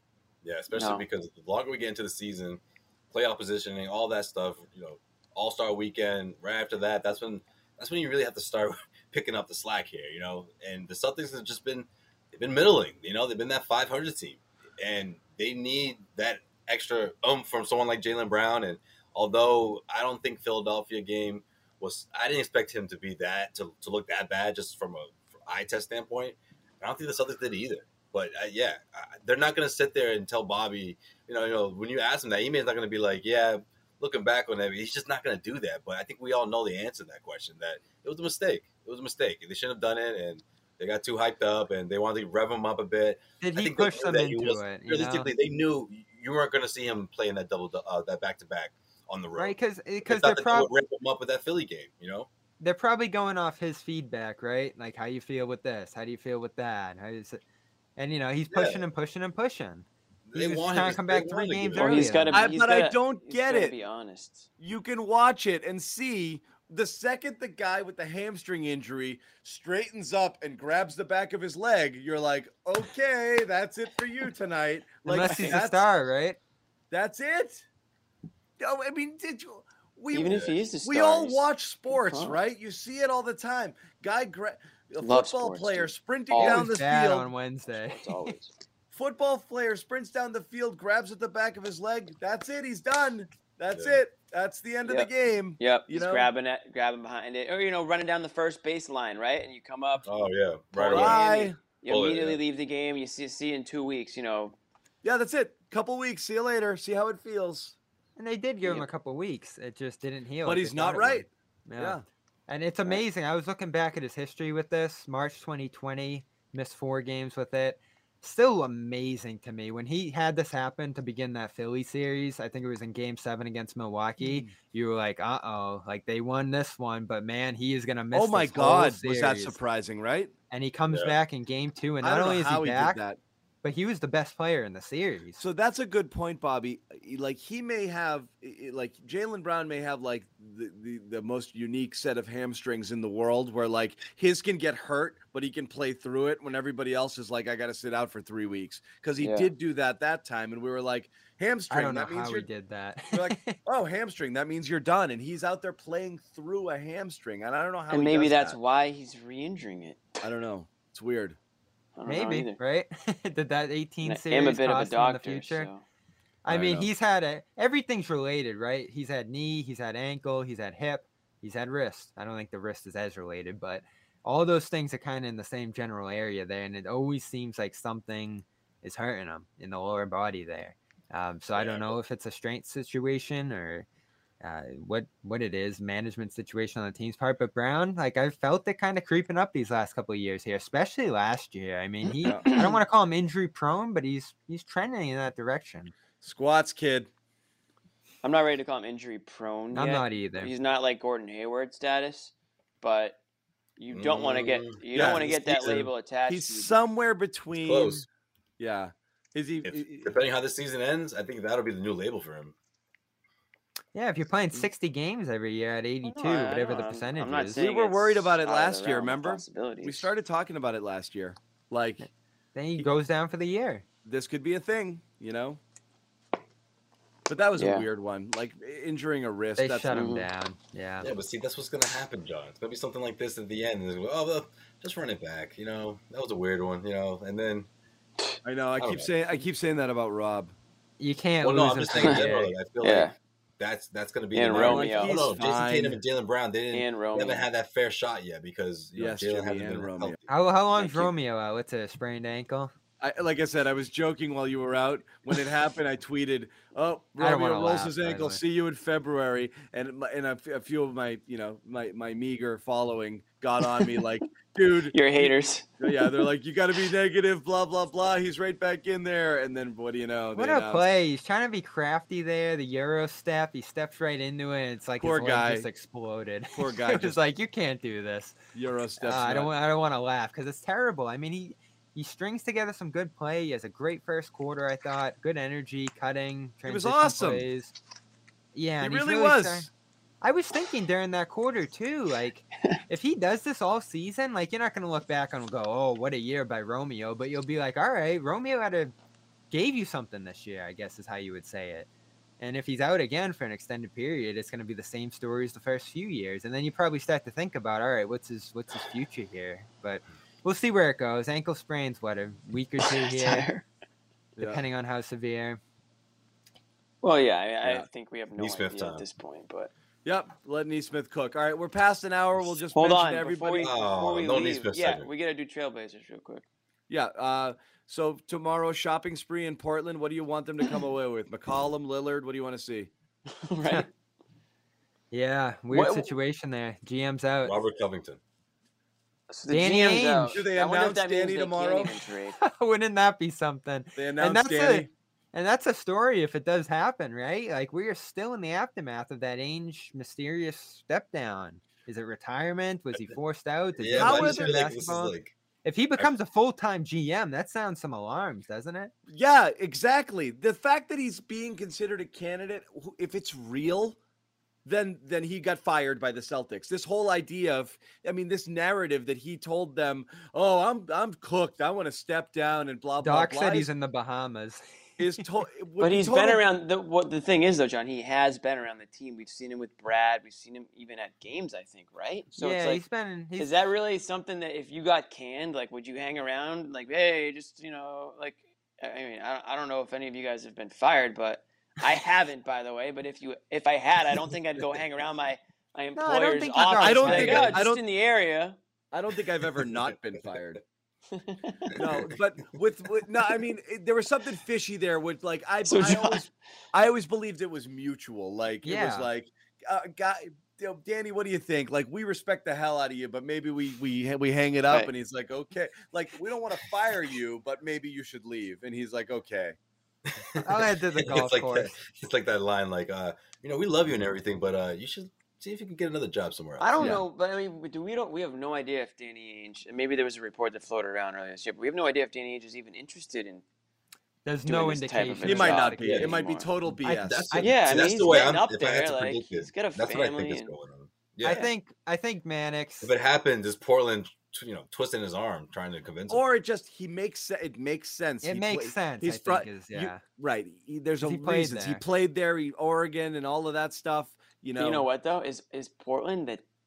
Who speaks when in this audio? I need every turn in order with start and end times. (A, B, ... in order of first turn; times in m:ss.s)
0:00.4-0:52.3 A
0:00.7-0:01.0 B
0:43.4-0:45.3 C
0:49.4-0:50.7 C
0:52.6-0:57.4 C
0:58.0-1:02.5 C
0:58.5-0:58.8 A
1:00.3-1:02.2 A
1:01.8-1:04.5 B
1:02.3-1:03.7 D
1:04.6-1:15.9 D
1:15.0-1:16.4 C
1:15.2-1:15.5 B
1:16.9-1:17.7 D
1:18.6-1:27.3 D
1:20.1-1:22.4 B
1:20.3-1:20.5 A
1:25.0-1:26.6 B
1:26.4-1:28.3 C
1:27.7-1:28.5 B
1:28.9-1:36.3 D
1:33.7-1:34.0 A
1:34.8-1:40.1 B
1:40.0-1:41.3 A
1:40.8-1:44.6 B
1:40.8-1:41.6 D
1:41.9-1:42.4 A
1:45.0-1:47.8 D
1:48.2-2:09.6 C
1:50.4-1:52.0 D
2:04.2-2:04.5 D
2:08.1-2:10.3 D
2:10.5-2:13.0 C
2:10.9-2:11.1 A
2:12.0-2:13.2 D
2:13.6-2:15.4 C
2:15.4-2:32.5 D
2:29.2-2:29.5 B
2:31.7-2:33.6 C
2:33.1-2:38.6 D
2:37.9-2:40.3 B
2:40.2-2:41.4 D
2:42.0-2:42.6 B
2:42.0-2:45.7 C
2:44.0-2:45.8 B
2:46.4-3:03.8 C
2:46.5-2:46.9 D
3:01.5-3:02.0 A
3:04.4-3:15.9 C
3:12.4-3:12.8 B
3:16.2-3:17.1 D
3:18.2-3:23.2 B
3:19.7-3:20.5 C
3:23.8-3:26.8 B
3:23.9-3:25.9 A
3:24.9-3:28.0 D
3:27.6-3:28.0 A
3:28.6-3:30.1 D
3:29.6-3:32.5 A
3:33.9-3:37.6 C
3:36.0-3:40.1 B
3:37.6-3:42.0 D
3:42.0-3:43.8 C
3:44.0-3:45.6 D
3:47.3-3:50.1 D
3:47.6-3:47.9 B
3:49.6-3:51.1 C
3:49.9-3:50.3 B
3:51.0-3:57.7 A
3:58.4-4:00.5 D
3:58.8-3:59.1 A
4:01.0-4:02.5 C
4:01.4-4:10.2 A
4:02.0-4:02.2 B
4:02.8-4:03.1 B
4:04.3-4:05.2 B
4:04.5-4:06.0 D
4:06.7-4:07.5 B
4:09.0-4:10.2 D
4:10.3-4:12.7 C
4:10.7-4:11.1 B
4:13.0-4:30.8 D
4:17.2-4:18.4 C
4:23.6-4:24.0 B
4:24.9-4:26.2 B
4:30.3-4:38.4 C
4:35.0-4:35.7 D
4:36.5-4:37.2 D
4:38.5-4:39.5 D
4:39.0-4:47.7 C
4:46.6-4:47.5 D
4:48.5-4:49.7 C
4:48.8-4:49.7 D
4:50.2-4:58.9 C
4:59.5-5:01.9 C
5:02.4-5:13.5 C
5:12.8-5:13.6 B
5:14.4-5:14.6 D
5:14.4-5:15.6 C
5:17.0-5:19.7 B
5:18.4-5:19.0 A
5:20.0-5:23.7 D
5:22.7-5:26.4 B
5:23.6-5:25.1 A
5:26.9-5:32.9 D
5:33.3-5:33.9 B
5:35.1-5:37.6 C
5:35.7-5:36.1 B
5:37.4-5:38.2 A
5:39.3-5:42.4 B
5:39.5-5:40.4 C
5:40.3-5:41.9 D
5:42.4-5:58.9 C
5:44.0-5:44.9 D
5:53.8-5:55.3 A
5:53.9-5:54.6 D
5:59.1-6:04.0 D
6:04.6-6:13.7 D
6:13.0-6:14.6 C
6:15.0-6:16.4 D
6:15.8-6:22.8 B
6:22.4-6:23.5 C
6:23.4-6:38.6 B
6:35.9-6:37.6 C
6:36.7-6:37.8 D
6:38.9-6:40.6 D
6:41.1-6:41.6 B
6:41.7-6:59.6 D
6:45.6-6:46.3 B
6:48.6-6:49.1 C
7:00.2-7:06.9 A
7:00.4-7:01.8 C
7:06.6-7:13.4 B
7:06.8-7:07.0 D
7:14.2-7:16.0 C
7:14.4-7:16.5 B
7:15.2-7:17.3 D
7:16.8-7:21.5 A
7:17.4-7:20.5 B
7:21.2-7:22.9 C
7:22.8-7:26.2 A
7:26.1-7:34.8 D
7:28.2-7:30.0 C
7:31.0-7:31.8 C
7:34.6-7:36.4 B